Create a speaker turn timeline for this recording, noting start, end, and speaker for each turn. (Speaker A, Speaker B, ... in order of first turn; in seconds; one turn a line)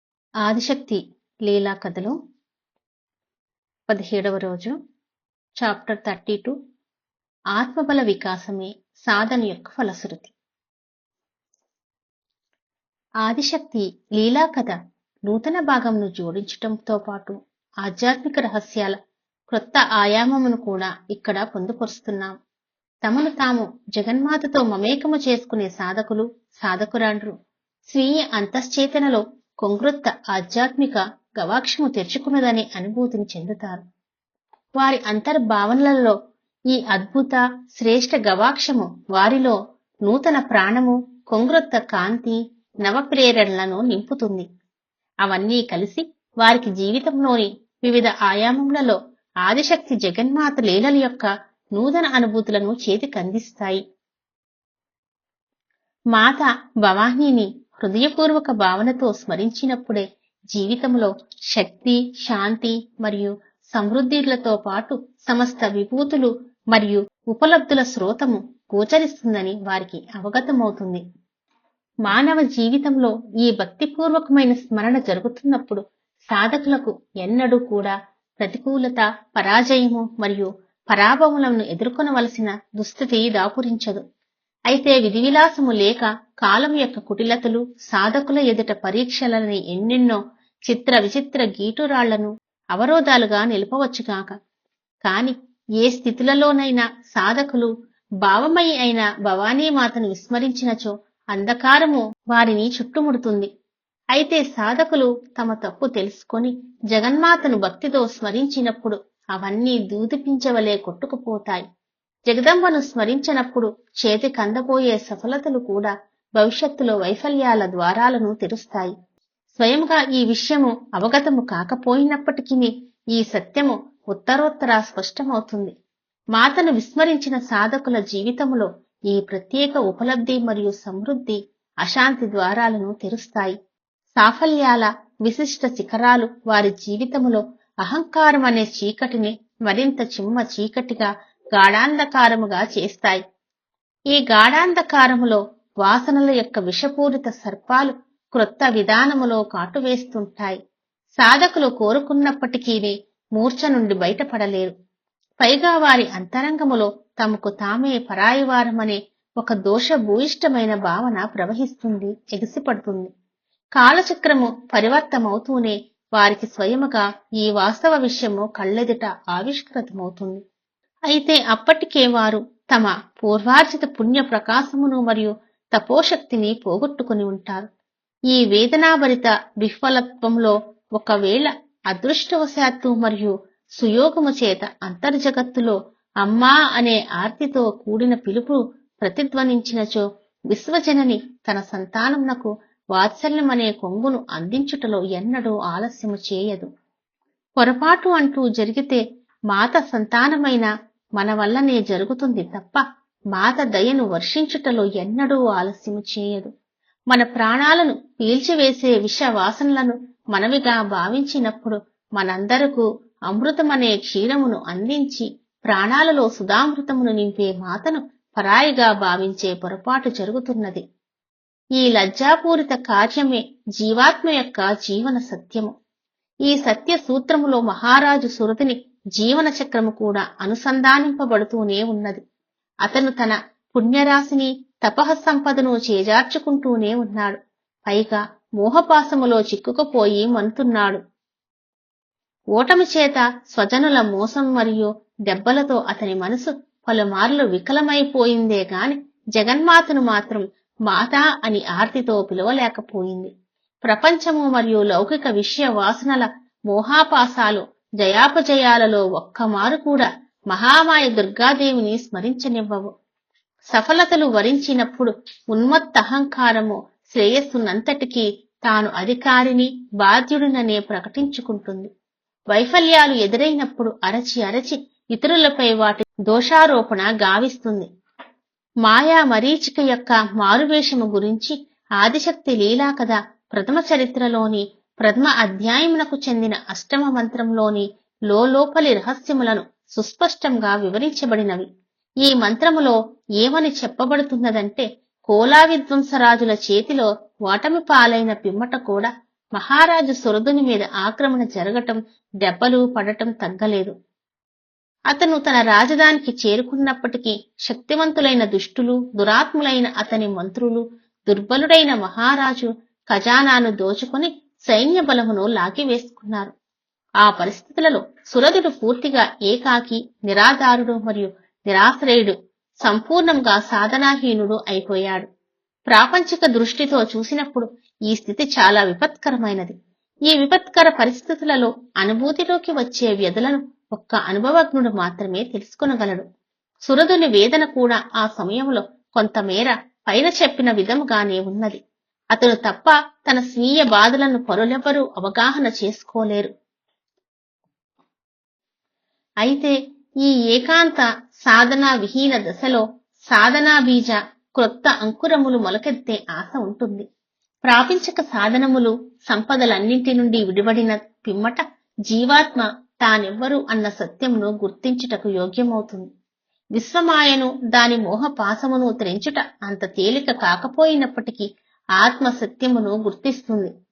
Speaker A: 0.4-2.2
Speaker A: 3.9-4.8
Speaker A: 5.6-6.5
Speaker A: 7.5-10.3
Speaker A: 13.2-14.8
Speaker A: 15.3-19.0
Speaker A: 19.5-22.3
Speaker A: 23.0-27.3
Speaker A: 27.9-33.8
Speaker A: 34.8-36.2
Speaker A: 36.7-44.5
Speaker A: 45.2-53.8
Speaker A: 56.1-71.0
Speaker A: 72.1-84.0
Speaker A: 84.7-94.3
Speaker A: 95.0-97.7
Speaker A: 98.2-103.5
Speaker A: 104.2-111.6
Speaker A: 112.3-118.9
Speaker A: 119.5-125.7
Speaker A: 126.4-133.6
Speaker A: 134.2-143.2
Speaker A: 144.1-150.6
Speaker A: 151.2-154.7
Speaker A: 155.4-163.1
Speaker A: 163.8-170.4
Speaker A: 171.1-177.7
Speaker A: 178.3-196.7
Speaker A: 197.6-199.0
Speaker A: 199.5-202.8
Speaker A: 203.3-206.5
Speaker A: 207.1-220.8
Speaker A: 221.8-225.7
Speaker A: 226.5-232.2
Speaker A: 232.9-241.0
Speaker A: 242.6-253.3
Speaker A: 253.9-262.9
Speaker A: 263.7-271.9
Speaker A: 272.5-277.9
Speaker A: 278.9-291.7
Speaker A: 292.2-303.9
Speaker A: 305.1-316.5
Speaker A: 317.2-325.3
Speaker A: 325.9-329.7
Speaker A: 330.3-336.2
Speaker A: 336.9-341.8
Speaker A: 342.4-346.5
Speaker A: 349.5-357.1
Speaker A: 357.7-366.1
Speaker A: 366.8-371.5
Speaker A: 372.0-373.7